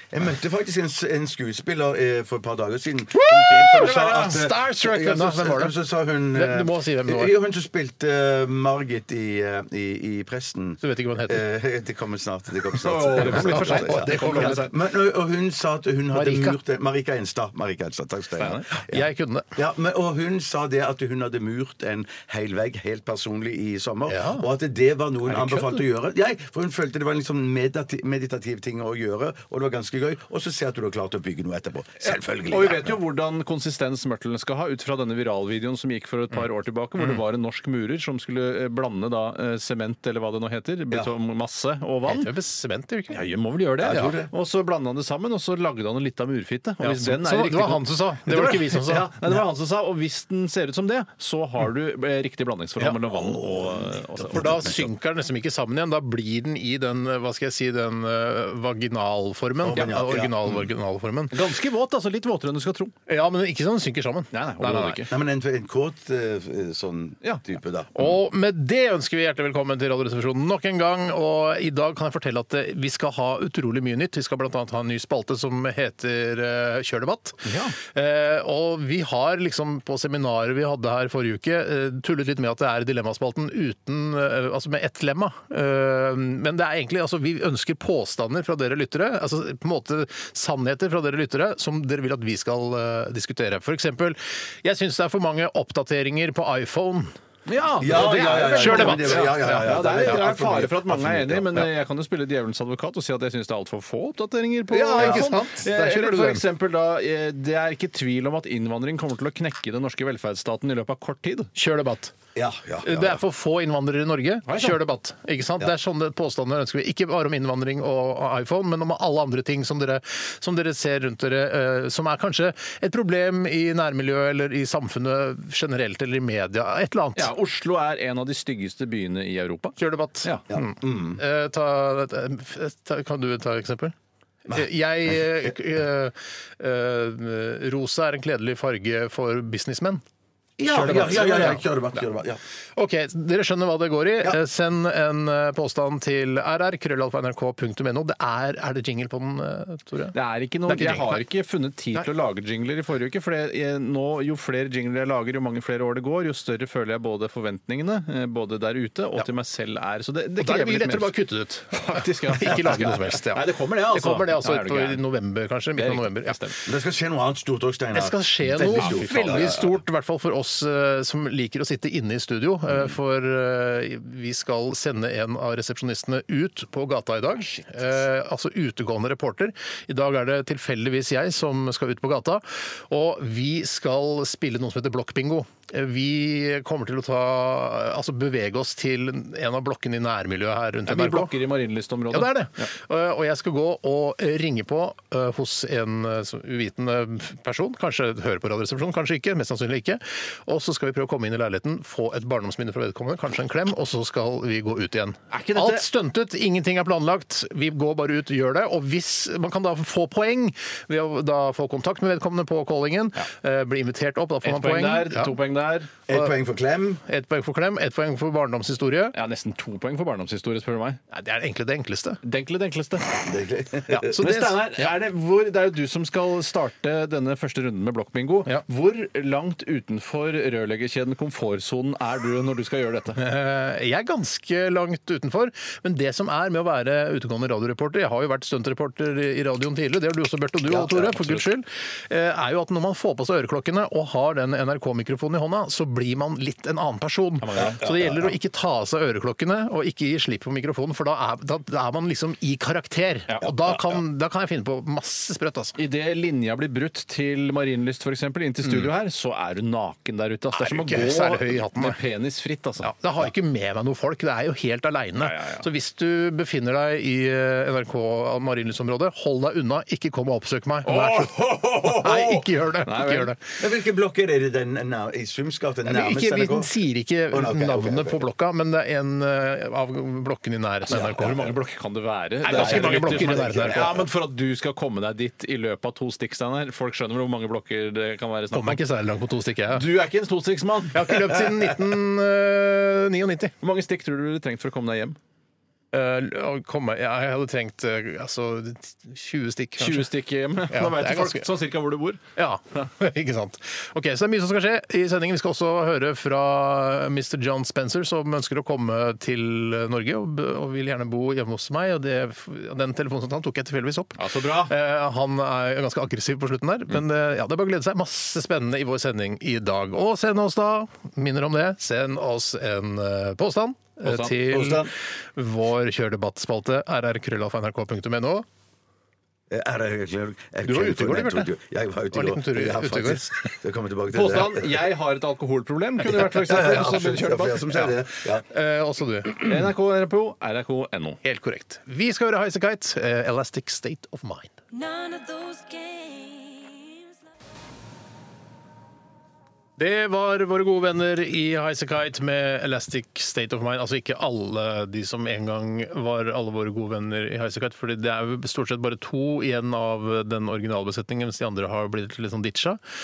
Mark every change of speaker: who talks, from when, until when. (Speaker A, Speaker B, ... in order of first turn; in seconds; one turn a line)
Speaker A: 0.1-33.0
Speaker B: 3.1-5.8
Speaker C: 3.3-4.4
Speaker B: 6.3-7.3
Speaker B: 10.8-11.4
Speaker C: 12.8-14.7
Speaker B: 13.2-14.7
Speaker B: 16.1-16.6
Speaker C: 18.4-18.7
Speaker B: 18.9-19.5
Speaker B: 24.1-24.4
Speaker C: 25.3-25.8
Speaker C: 32.0-42.3
Speaker B: 42.1-43.2
Speaker C: 43.1-54.7
Speaker A: 43.8-44.3
Speaker B: 46.8-49.1
Speaker A: 53.1-54.9
Speaker B: 54.3-61.4
Speaker A: 59.6-60.4
Speaker C: 61.3-62.9
Speaker B: 63.1-65.0
Speaker C: 64.3-65.1
Speaker A: 65.1-68.1
Speaker B: 68.0-97.1
Speaker C: 77.5-77.8
Speaker C: 97.5-111.5
Speaker A: 97.8-101.7
Speaker B: 98.3-100.3
Speaker B: 104.7-106.4
Speaker A: 105.0-105.3
Speaker B: 111.6-112.1
Speaker A: 112.3-113.2
Speaker B: 112.8-127.3
Speaker C: 114.5-114.8
Speaker C: 127.2-130.4
Speaker B: 129.8-133.9
Speaker A: 130.5-131.2
Speaker A: 134.5-135.6
Speaker B: 134.5-140.0
Speaker A: 140.6-142.4
Speaker B: 140.7-141.6
Speaker B: 142.8-150.2
Speaker C: 150.1-161.1
Speaker B: 150.7-151.2
Speaker B: 160.4-166.4
Speaker C: 161.7-165.0
Speaker C: 165.8-166.6
Speaker A: 166.7-169.8
Speaker B: 167.9-191.4
Speaker C: 168.8-169.6
Speaker C: 190.9-192.7
Speaker B: 192.1-215.4
Speaker C: 205.3-205.9
Speaker C: 214.4-215.9
Speaker A: 216.1-217.0
Speaker B: 217.0-219.2
Speaker C: 219.1-221.0
Speaker B: 221.1-222.2
Speaker C: 222.2-223.1
Speaker A: 223.2-224.2
Speaker B: 223.9-224.9
Speaker C: 224.1-233.2
Speaker B: 233.2-255.8
Speaker A: 240.7-241.1
Speaker C: 241.1-241.4
Speaker C: 247.4-247.8
Speaker A: 247.6-248.3
Speaker C: 255.8-262.9
Speaker B: 260.5-262.0
Speaker B: 262.8-273.4
Speaker C: 265.2-265.7
Speaker C: 270.9-273.3
Speaker A: 273.6-276.7
Speaker B: 275.9-281.3
Speaker A: 277.3-278.2
Speaker A: 280.9-281.5
Speaker C: 280.9-288.8
Speaker B: 282.4-284.0
Speaker A: 282.4-284.1
Speaker B: 288.5-289.8
Speaker C: 289.7-291.2
Speaker B: 290.9-293.5
Speaker C: 293.6-295.2
Speaker B: 295.9-300.1
Speaker C: 299.8-302.2
Speaker B: 300.7-301.4
Speaker B: 302.4-328.4
Speaker C: 314.2-314.7
Speaker C: 324.1-324.4
Speaker A: 324.5-324.9
Speaker A: 329.5-334.8
Speaker B: 330.6-331.5
Speaker B: 332.1-333.2
Speaker C: 334.1-337.9
Speaker A: 336.1-338.4
Speaker B: 338.4-339.5
Speaker C: 339.4-341.2
Speaker B: 341.2-344.5
Speaker D: 344.7-347.1
Speaker B: 349.8-362.8